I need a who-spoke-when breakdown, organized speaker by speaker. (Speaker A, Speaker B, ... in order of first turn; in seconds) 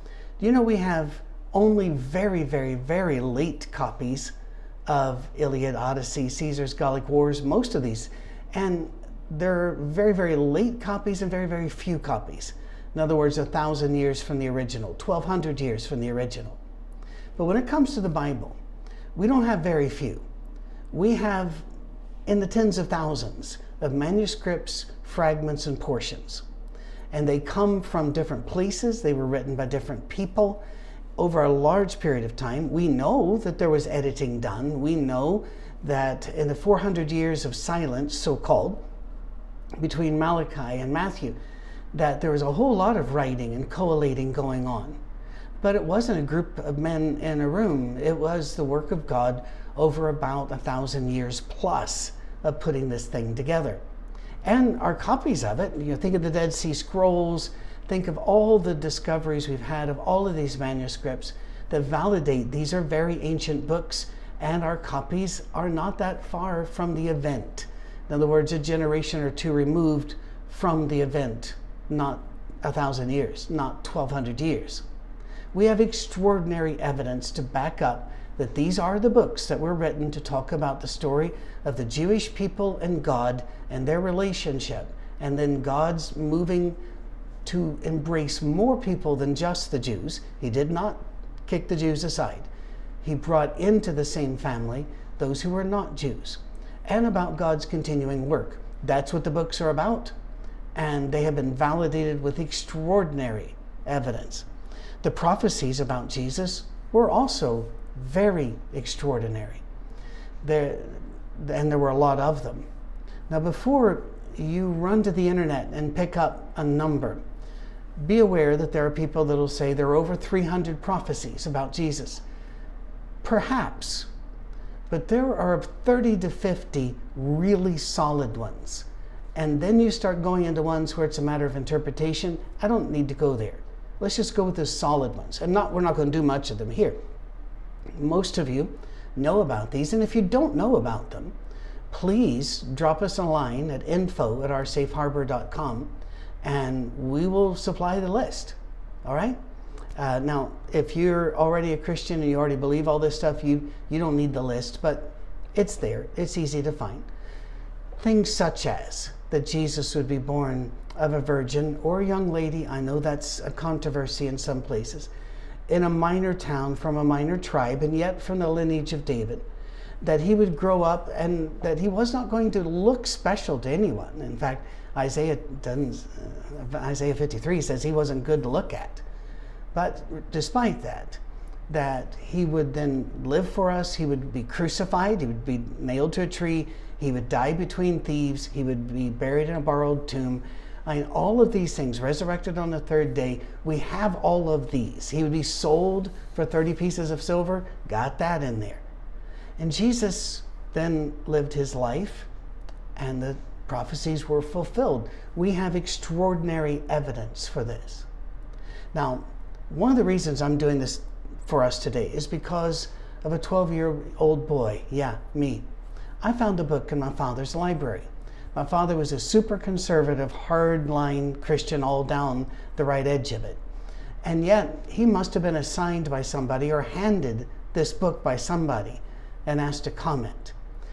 Speaker A: 0.4-4.3, 4.9-16.6, 17.4-18.6, 19.1-20.2, 20.9-21.7, 22.3-26.4, 27.1-30.6, 31.2-38.8, 39.8-41.4, 41.9-45.0, 45.6-53.8, 54.4-74.8, 75.5-86.8, 87.4-92.5, 93.0-100.1, 100.7-104.5, 105.0-109.6, 110.4-112.7, 113.3-117.2, 118.0-122.2, 123.2-124.1, 124.9-137.0, 138.0-141.3, 141.9-149.4, 149.9-157.1, 158.0-165.1, 165.7-169.5, 170.0-179.0, 179.7-198.8, 199.6-202.3, 202.9-208.1, 208.9-215.7, 216.2-223.6, 224.2-230.6